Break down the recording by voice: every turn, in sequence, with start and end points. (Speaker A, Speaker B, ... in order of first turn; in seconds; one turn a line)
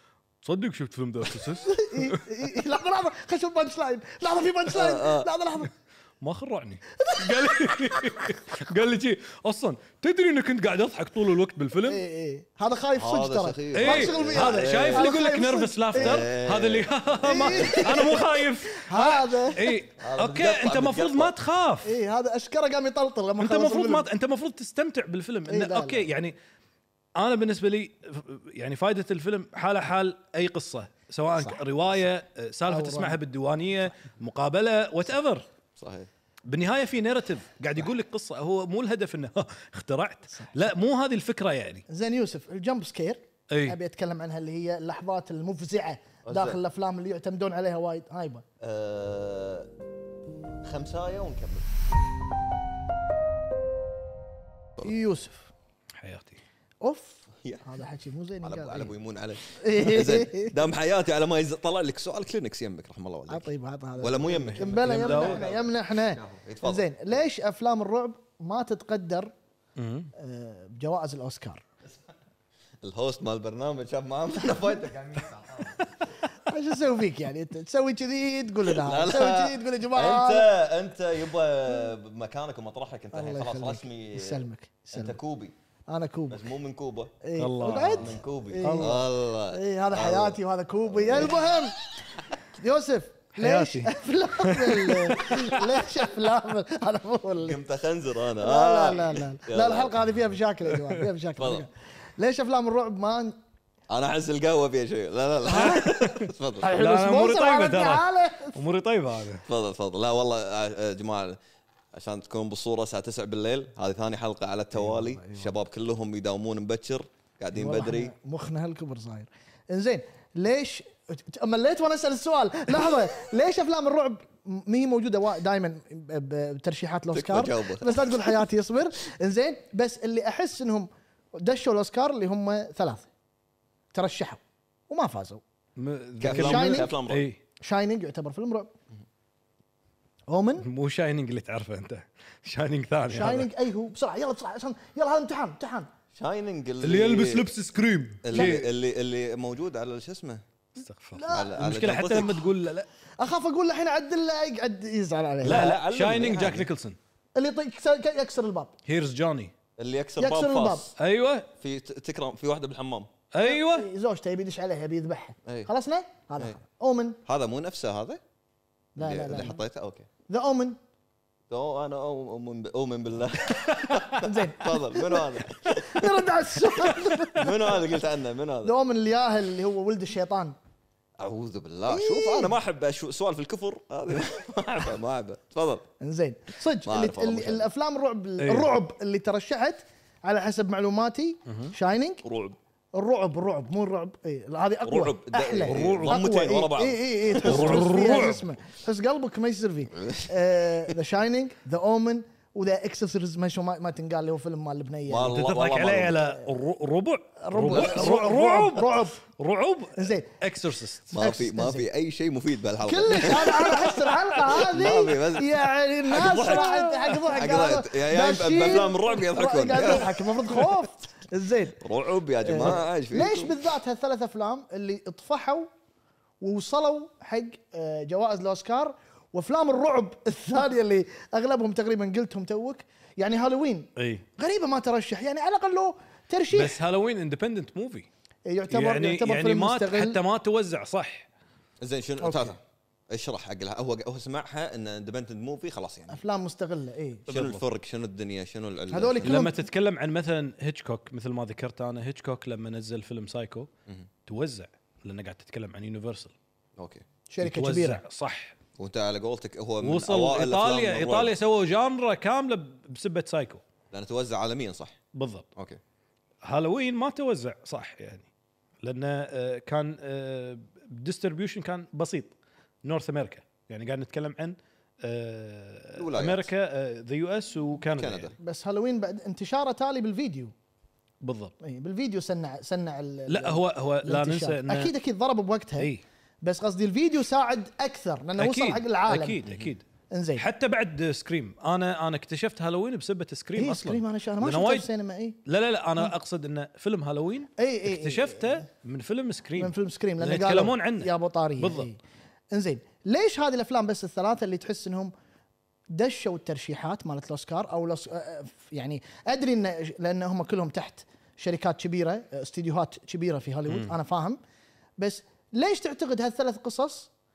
Speaker A: 0.4-2.3
Speaker B: 1.6-5.7
Speaker C: 4.7-5.3
Speaker A: 6.2-12.0
Speaker B: 7.0-8.3
Speaker B: 11.9-16.2
Speaker C: 12.9-15.1
Speaker A: 13.7-21.9
Speaker C: 15.9-18.2
Speaker B: 17.2-19.8
Speaker C: 20.0-21.3
Speaker B: 21.8-24.1
Speaker A: 23.4-26.4
Speaker B: 25.5-26.1
Speaker A: 27.2-35.5
Speaker B: 32.7-33.2
Speaker C: 35.8-36.1
Speaker A: 36.5-41.9
Speaker B: 41.9-48.4
Speaker A: 43.5-43.8
Speaker C: 46.2-46.6
Speaker C: 48.6-49.7
Speaker C: 50.6-51.7
Speaker B: 54.8-55.5
Speaker A: 56.0-56.4
Speaker B: 56.8-58.9
Speaker C: 58.4-66.9
Speaker B: 59.5-60.6
Speaker B: 63.3-69.3
Speaker A: 64.6-65.5
Speaker A: 69.8-70.1
Speaker B: 70.2-71.6
Speaker C: 72.8-75.9
Speaker B: 76.3-80.5
Speaker C: 78.6-85.5
Speaker B: 83.1-85.2
Speaker B: 85.9-86.4
Speaker C: 86.3-87.1
Speaker B: 87.2-91.8
Speaker A: 87.4-89.0
Speaker C: 87.7-91.5
Speaker B: 92.5-97.6
Speaker A: 93.4-95.6
Speaker C: 97.4-100.0
Speaker B: 98.4-103.4
Speaker A: 100.7-101.0
Speaker C: 101.4-101.7
Speaker C: 103.9-106.7
Speaker B: 105.5-105.9
Speaker A: 105.5-109.5
Speaker B: 106.6-108.6
Speaker C: 109.5-111.4
Speaker C: 111.9-118.1
Speaker B: 117.5-133.1
Speaker C: 127.1-128.4
Speaker B: 133.9-135.4
Speaker A: 135.8-137.4
Speaker C: 136.2-137.3
Speaker B: 136.3-136.9
Speaker B: 137.6-138.7
Speaker B: 140.3-140.7
Speaker A: 140.6-143.5
Speaker B: 143.1-145.9
Speaker C: 146.1-147.5
Speaker A: 146.8-148.7
Speaker C: 148.2-150.4
Speaker A: 150.8-152.9
Speaker B: 151.2-151.6
Speaker C: 151.3-152.4
Speaker B: 153.2-155.8
Speaker C: 155.4-156.7
Speaker A: 155.4-157.0
Speaker B: 157.4-158.7
Speaker A: 158.9-159.5
Speaker C: 159.8-160.9
Speaker B: 160.2-160.9
Speaker A: 161.0-161.5
Speaker C: 161.6-163.1
Speaker A: 163.3-163.9
Speaker B: 163.4-167.2
Speaker C: 167.3-168.2
Speaker B: 169.0-169.6
Speaker C: 169.0-170.1
Speaker B: 170.3-170.8
Speaker C: 171.5-176.3
Speaker B: 174.2-177.9
Speaker C: 177.4-178.7
Speaker B: 178.6-180.6
Speaker C: 181.2-185.9
Speaker B: 181.9-182.6
Speaker B: 186.0-192.2
Speaker C: 186.8-187.7
Speaker A: 188.4-188.7
Speaker A: 191.5-191.7
Speaker C: 192.2-192.6
Speaker B: 192.9-205.3
Speaker C: 194.8-197.9
Speaker A: 195.7-196.2
Speaker A: 197.4-198.4
Speaker C: 200.0-200.3
Speaker C: 205.1-206.2
Speaker A: 205.3-211.1
Speaker B: 207.4-209.2
Speaker B: 210.0-210.3
Speaker C: 211.1-213.9
Speaker B: 211.2-211.9
Speaker B: 212.8-221.8
Speaker A: 213.6-214.0
Speaker C: 214.5-220.7
Speaker A: 216.3-217.2
Speaker C: 221.8-223.6
Speaker B: 222.4-225.7
Speaker B: 226.4-236.8
Speaker A: 234.0-234.2
Speaker A: 236.5-238.1
Speaker B: 238.5-240.2
Speaker A: 238.7-241.3
Speaker C: 241.8-242.6
Speaker B: 242.2-242.5
Speaker C: 243.1-246.2
Speaker B: 246.1-247.3
Speaker C: 247.3-249.4
Speaker A: 247.3-247.6
Speaker B: 248.9-249.6
Speaker A: 249.2-253.7
Speaker A: 254.3-256.3
Speaker C: 256.8-257.1
Speaker B: 257.3-258.0
Speaker A: 257.4-258.6
Speaker C: 258.8-261.3
Speaker A: 259.8-263.6
Speaker C: 263.9-265.0
Speaker A: 265.1-265.5
Speaker A: 266.4-268.3
Speaker A: 268.8-278.3
Speaker C: 276.0-276.5
Speaker C: 278.0-278.4
Speaker B: 278.4-280.5
Speaker A: 281.2-281.5
Speaker B: 281.6-285.9
Speaker A: 283.3-284.9
Speaker B: 286.4-289.4
Speaker A: 288.4-289.8
Speaker C: 289.4-289.7
Speaker B: 290.1-290.4
Speaker A: 290.4-294.9
Speaker B: 293.6-295.4
Speaker A: 295.5-301.9
Speaker B: 297.6-298.6
Speaker B: 299.6-302.0
Speaker B: 302.5-305.1
Speaker B: 305.9-314.4
Speaker A: 313.7-313.9
Speaker B: 315.0-317.1